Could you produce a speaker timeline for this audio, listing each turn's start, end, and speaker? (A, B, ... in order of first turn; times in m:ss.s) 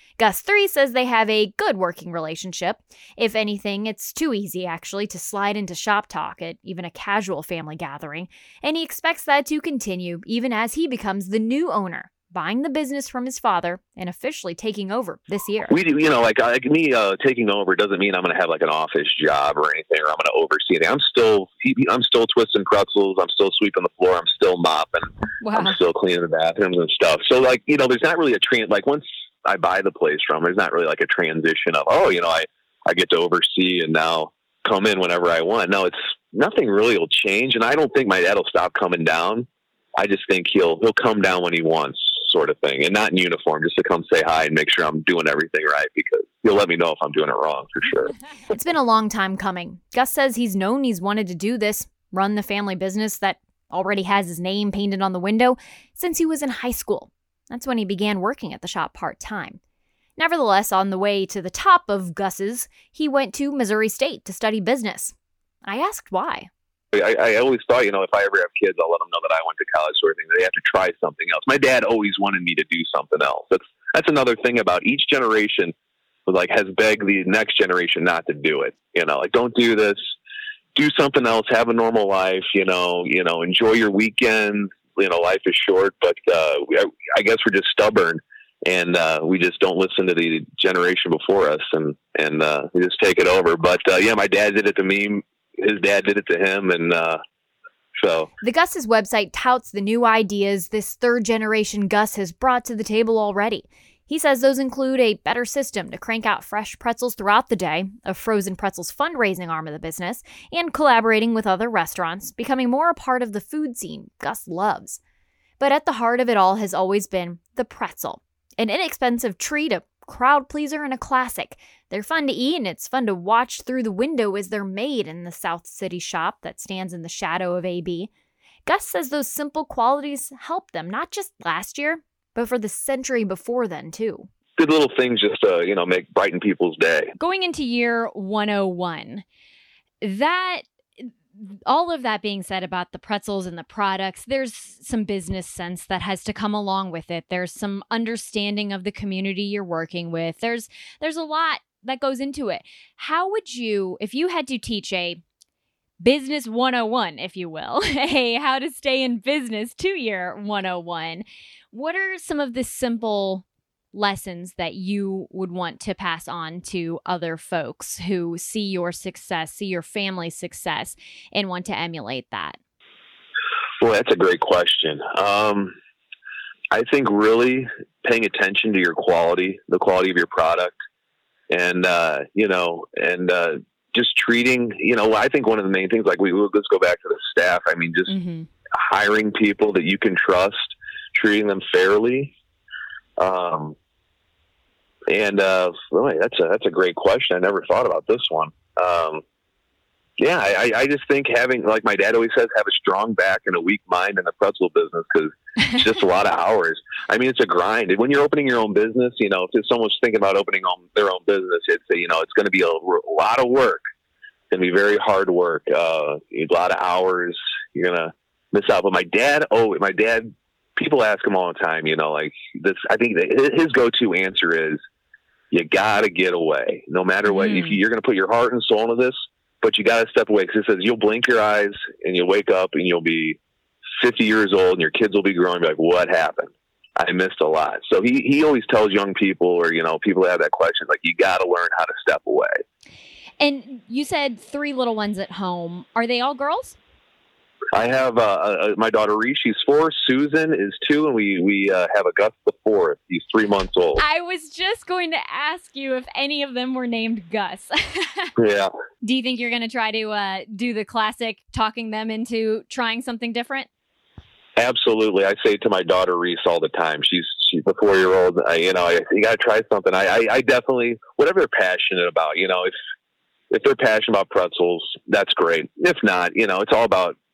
0:00.2-0:15.8 A
0:15.7-0:48.2 B
0:25.4-0:25.8 A
0:48.5-0:59.6 A
1:00.2-1:06.5 A
1:06.9-1:15.7 B
1:16.3-1:20.0 B
1:20.8-1:37.2 B
1:38.0-1:38.3 B
1:38.4-1:55.0 A
1:55.6-2:08.1 A
2:08.7-2:14.3 A
2:14.6-2:17.1 B
2:17.2-2:19.2 A
2:20.0-2:35.2 A
2:36.0-2:52.6 A
2:53.8-2:55.7 B
2:56.7-3:00.7 B
3:01.5-3:08.1 B
3:08.1-3:08.5 A
3:08.8-3:12.3 B
3:13.2-3:13.8 B
3:15.1-3:19.2 B
3:20.2-3:33.8 B
3:34.5-3:44.8 B
3:45.5-3:53.4 B
3:47.3-3:47.8 A
3:54.0-4:02.6 B
4:03.4-4:06.8 A
4:07.7-4:14.0 B
4:14.0-4:18.3 A
4:18.4-4:18.7 B
4:19.0-4:23.7 A
4:24.6-4:32.7 B
4:33.5-4:37.2 B